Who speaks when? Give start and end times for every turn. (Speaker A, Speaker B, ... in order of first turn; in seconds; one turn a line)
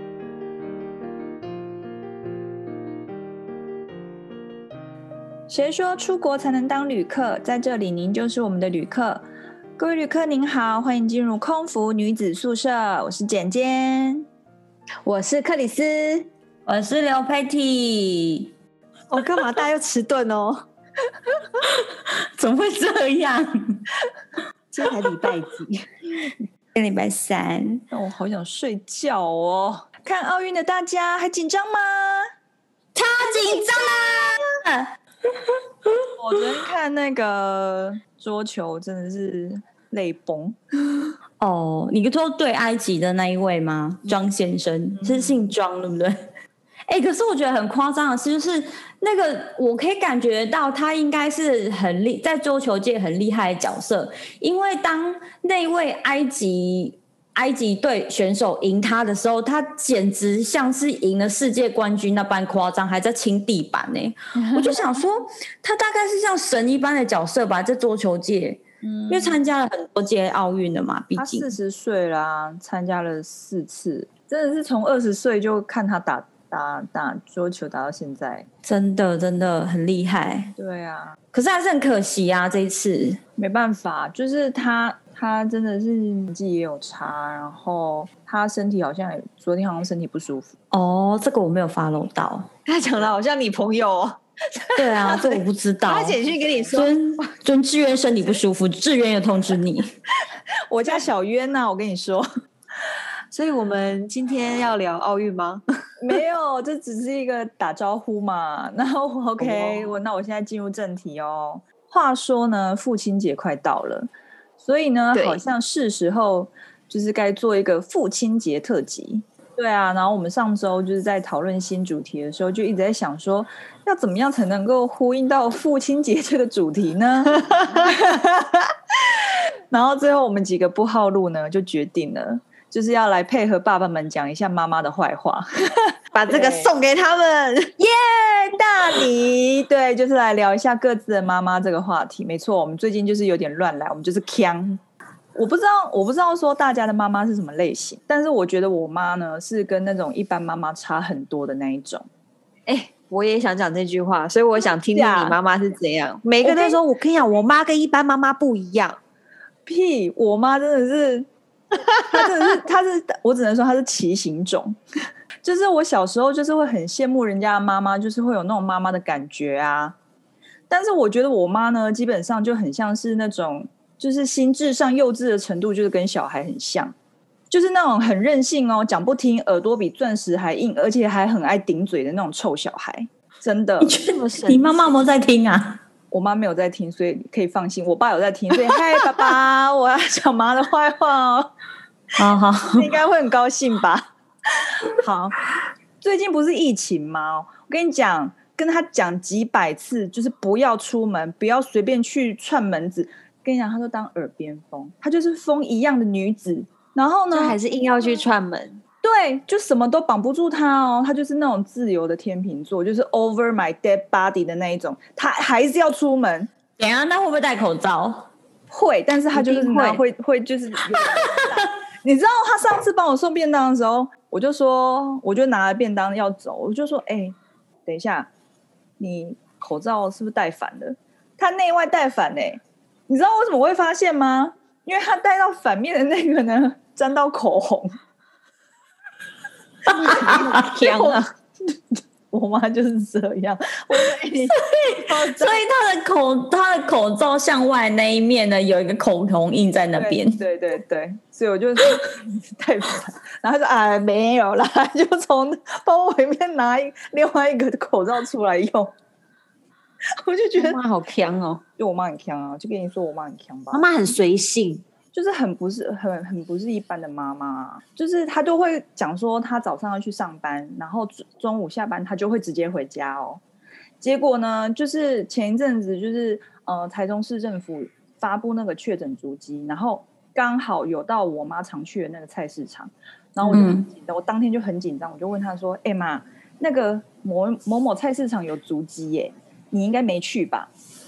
Speaker A: 5.5-9.2
Speaker A: 9.8-14.3
Speaker B: 15.0-16.3
Speaker C: 16.6-18.5
Speaker B: 19.1-20.6
Speaker C: 21.6-23.8
Speaker B: 24.7-25.9
Speaker C: 26.7-27.8
Speaker A: 27.9-32.3
Speaker C: 32.9-34.9
Speaker C: 35.4-36.1
Speaker A: 36.2-40.6
Speaker C: 41.4-46.2
Speaker A: 45.0-45.4
Speaker C: 46.9-71.5
Speaker A: 64.3-64.9
Speaker A: 68.8-69.4
Speaker A: 71.2-78.5
Speaker C: 78.6-80.5
Speaker A: 80.6-81.2
Speaker C: 81.3-83.2
Speaker A: 83.4-90.5
Speaker C: 90.7-92.5
Speaker B: 92.7-94.2
Speaker C: 94.8-96.2
Speaker B: 95.8-96.9
Speaker C: 96.7-99.9
Speaker A: 100.7-102.2
Speaker B: 103.3-105.6
Speaker A: 106.0-136.7
Speaker B: 109.4-109.9
Speaker B: 115.1-115.4
Speaker B: 136.1-137.7
Speaker A: 137.8-144.8
Speaker A: 145.3-152.1
Speaker B: 152.7-159.0
Speaker A: 154.6-155.4
Speaker A: 156.4-156.8
Speaker A: 159.7-161.3
Speaker A: 161.9-164.8
Speaker A: 165.4-169.9
Speaker A: 170.7-176.9
Speaker A: 177.5-184.0
Speaker C: 183.8-185.8
Speaker B: 184.0-184.8
Speaker A: 186.1-191.5
Speaker C: 192.2-192.9
Speaker A: 192.7-195.4
Speaker A: 196.0-207.6
Speaker B: 207.3-208.8
Speaker A: 209.0-216.5
Speaker C: 216.8-218.3
Speaker A: 218.7-228.3
Speaker B: 219.3-220.0
Speaker C: 221.0-221.6
Speaker A: 229.0-238.0
Speaker A: 239.9-245.7
Speaker B: 240.0-241.3
Speaker C: 240.1-240.4
Speaker C: 244.5-250.4
Speaker A: 249.9-258.9
Speaker A: 260.2-260.8
Speaker B: 260.5-261.6
Speaker A: 261.8-263.9
Speaker B: 263.7-264.8
Speaker A: 265.1-273.4
Speaker A: 274.0-290.7
Speaker C: 283.5-283.9